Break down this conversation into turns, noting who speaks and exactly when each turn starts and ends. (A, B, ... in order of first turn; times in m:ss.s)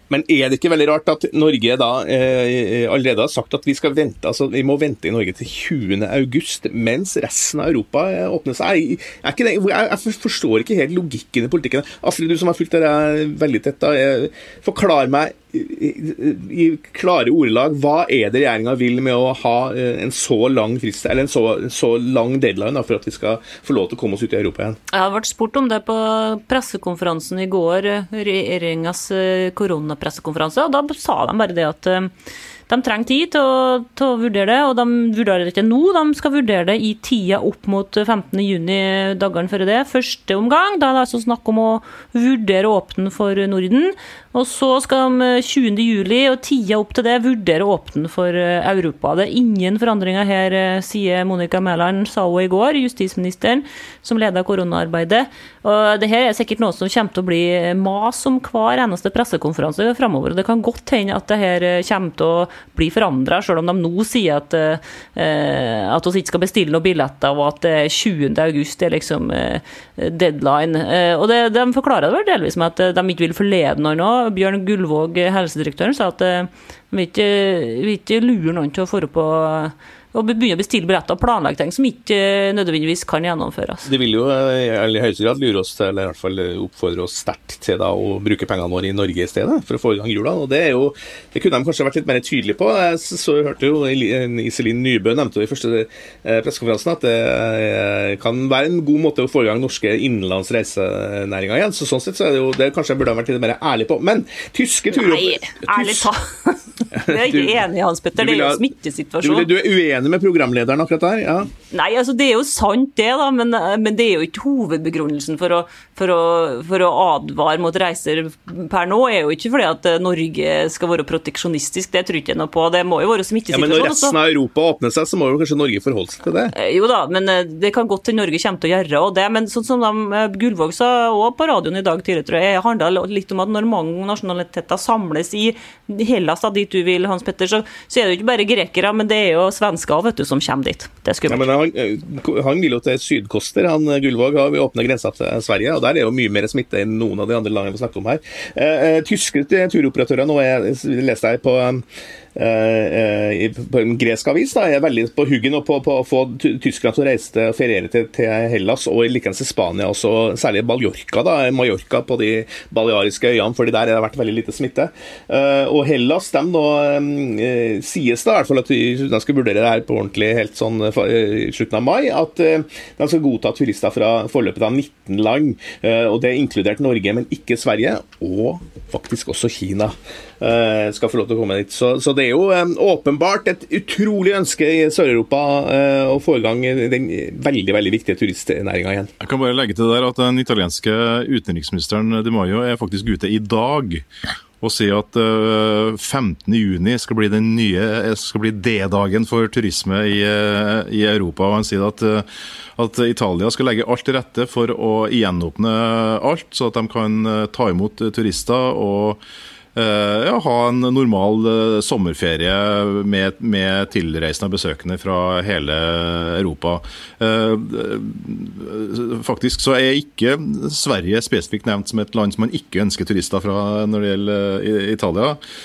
0:00.1-0:24.8 A
0:24.9-0:32.1 B
0:32.7-1:23.9 B
1:23.8-1:46.0 A
1:44.9-1:49.5 B
1:46.9-1:47.6 A
1:48.2-1:48.6 A
1:49.2-1:51.5 A
1:51.7-2:04.2 B
2:03.5-2:06.5 A
2:06.5-2:21.5 B
2:21.3-2:31.8 A
2:32.3-3:09.1 A
3:09.2-3:14.0 C
3:14.6-3:29.2 C
3:29.7-3:45.4 C